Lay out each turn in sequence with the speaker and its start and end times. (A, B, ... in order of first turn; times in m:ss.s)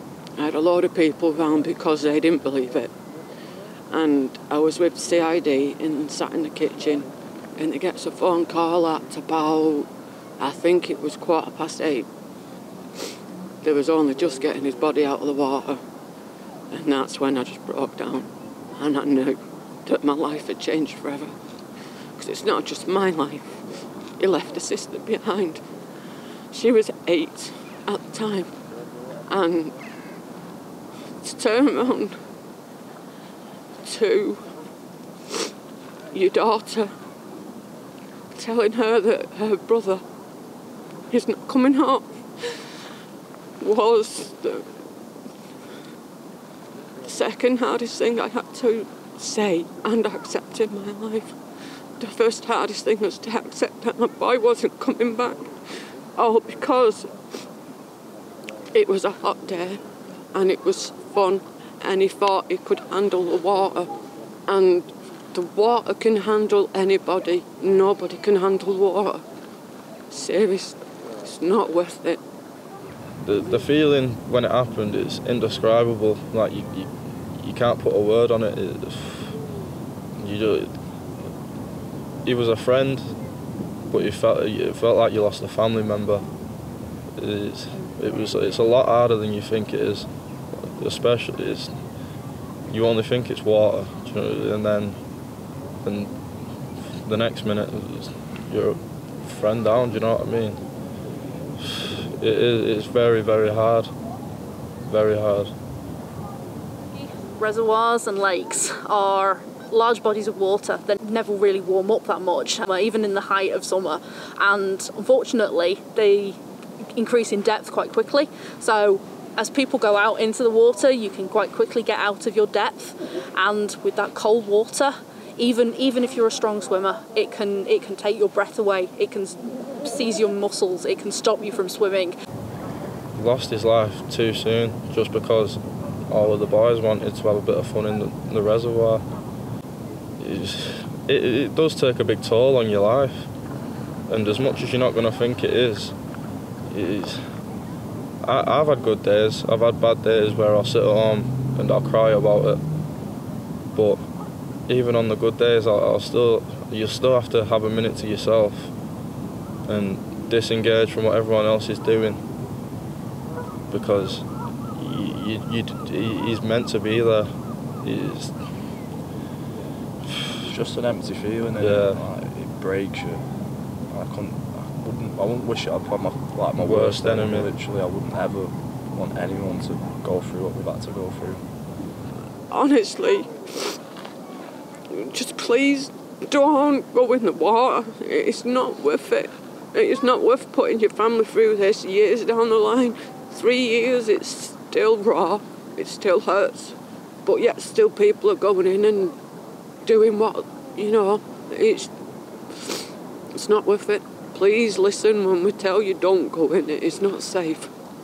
0:00.4-0:02.9 A
0:03.9-0:12.1 A
0:13.6-0:15.8 A
0:16.7-0:21.3 A
0:22.2-0:23.6 A
0:24.2-0:25.6 A
0:26.5-0:28.5 A
0:29.3-0:29.7 A
0:31.2-0:32.1 A
0:33.8-0:34.4 A
0:36.1-0:36.9 A
0:38.3-0:40.0 A
0:41.1-0:42.7 A
0:43.6-0:44.6 A
0:47.0-0:51.4 A
0:52.0-0:55.5 A
0:56.1-0:57.1 A
0:58.7-0:59.8 A
1:00.3-1:03.9 A
1:04.4-1:09.2 A
1:10.1-1:12.2 A
1:13.2-1:19.4 B
1:20.2-1:20.9 B
1:22.2-1:23.2 B
1:23.9-1:26.2 B
1:27.2-1:31.7 B
1:32.7-1:35.0 B
1:35.8-1:36.2 B
1:36.7-1:40.6 B
1:41.6-1:43.9 B
1:44.9-1:45.5 B
1:46.9-1:56.4 C
1:57.0-2:12.1 C
2:13.1-2:19.0 B
2:20.2-2:23.3 B
2:24.1-2:25.9 B
2:26.7-2:27.2 B
2:28.2-2:32.6 B
2:33.7-2:34.0 B
2:34.7-2:38.7 B
2:39.6-2:42.2 B
2:43.7-2:47.3 B
2:47.8-2:48.4 B
2:50.4-2:53.2 D
2:51.6-2:52.0 B
2:53.9-3:01.4 D
2:56.6-2:57.5 B
3:02.5-3:03.8 A
3:04.9-3:19.2 A
3:19.8-3:21.9 A
3:23.3-3:27.7 A